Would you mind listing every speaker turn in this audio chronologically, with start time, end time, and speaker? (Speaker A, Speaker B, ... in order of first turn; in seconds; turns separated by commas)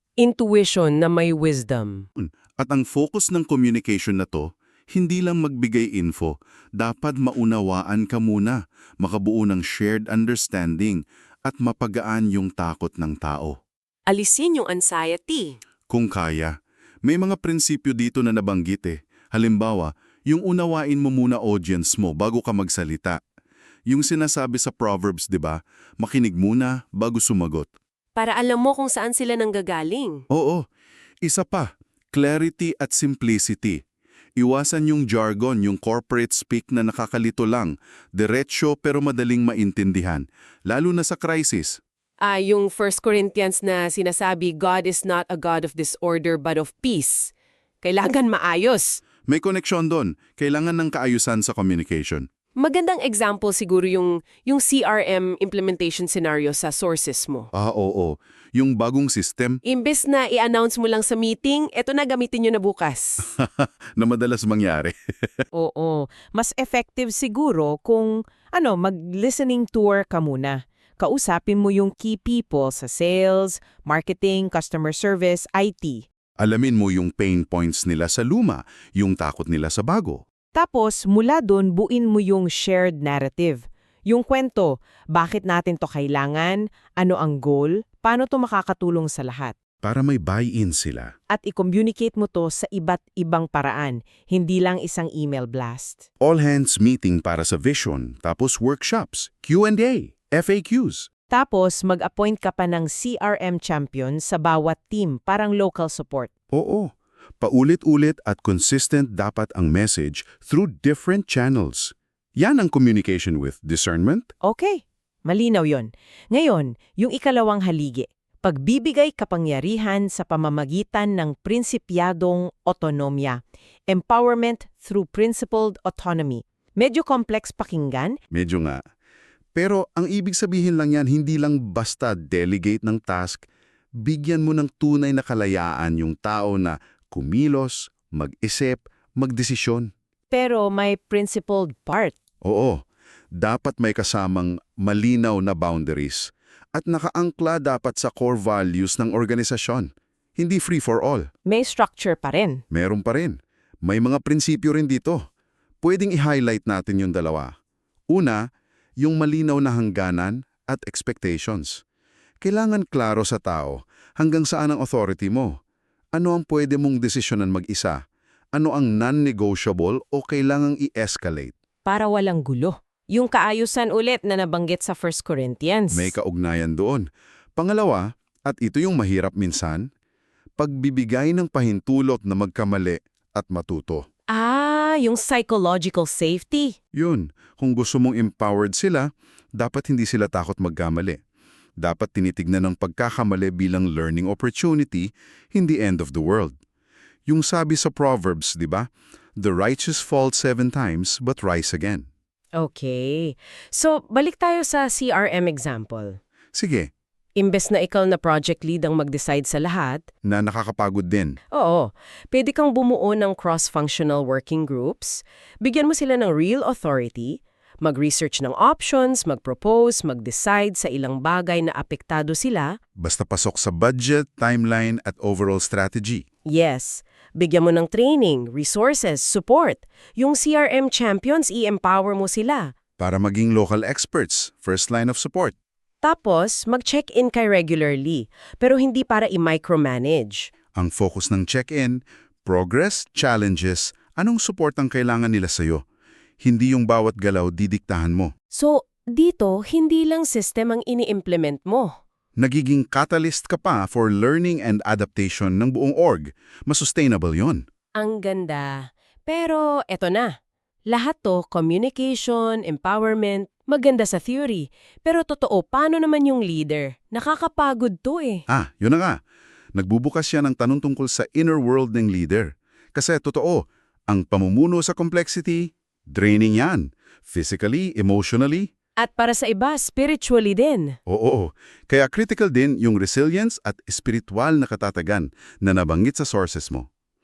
Speaker A: 0.2-2.0, Speaker B: 2.2-13.6, Speaker A: 14.1-15.5, Speaker B: 15.9-23.2, Speaker B: 23.9-27.7, Speaker A: 28.1-30.2, Speaker B: 30.3-30.6, Speaker B: 31.2-33.8, Speaker B: 34.4-41.8, Speaker A: 42.2-47.3, Speaker A: 47.8-49.0, Speaker B: 49.3-52.2, Speaker A: 52.6-57.5, Speaker B: 57.5-59.6, Speaker A: 59.6-63.3, Speaker B: 63.4-65.4, Speaker C: 65.5-76.0, Speaker B: 76.4-80.2, Speaker C: 80.5-89.5, Speaker B: 89.8-91.1, Speaker C: 91.3-96.0, Speaker B: 96.2-101.1, Speaker C: 101.3-106.3, Speaker B: 106.5-114.3, Speaker C: 114.4-128.2, Speaker B: 128.3-128.8, Speaker B: 129.6-133.4, Speaker B: 134.0-139.9, Speaker C: 140.3-142.1, Speaker B: 142.4-142.8, Speaker B: 143.3-151.2, Speaker C: 151.4-152.6, Speaker B: 152.7-155.2, Speaker B: 155.8-157.5, Speaker B: 158.1-158.4, Speaker B: 159.0-161.8, Speaker B: 162.4-165.5, Speaker B: 166.1-168.0, Speaker B: 168.5-171.5, Speaker C: 171.9-176.1, Speaker B: 175.9-177.0, Speaker B: 177.6-179.8, Speaker B: 180.6-184.0, Speaker A: 184.3-186.7, Speaker B: 186.9-189.1, Speaker B: 189.6-191.2, Speaker B: 191.8-196.5, Speaker B: 197.3-202.1, Speaker A: 202.6-206.2, Speaker B: 206.5-206.9, Speaker A: 207.4-210.0, Speaker B: 210.2-211.4, Speaker A: 211.5-222.7, Speaker B: 223.0-226.2, Speaker A: 226.5-232.7, Speaker B: 233.0-235.5, Speaker A: 236.0-240.5, Speaker B: 240.8-245.8, Speaker B: 246.4-248.3, Speaker A: 248.5-251.9, Speaker B: 252.4-257.6, Speaker A: 258.0-260.3, Speaker A: 260.9-268.4, Speaker B: 268.5-269.1, Speaker B: 269.7-278.7, Speaker A: 279.0-280.9, Speaker B: 281.1-286.9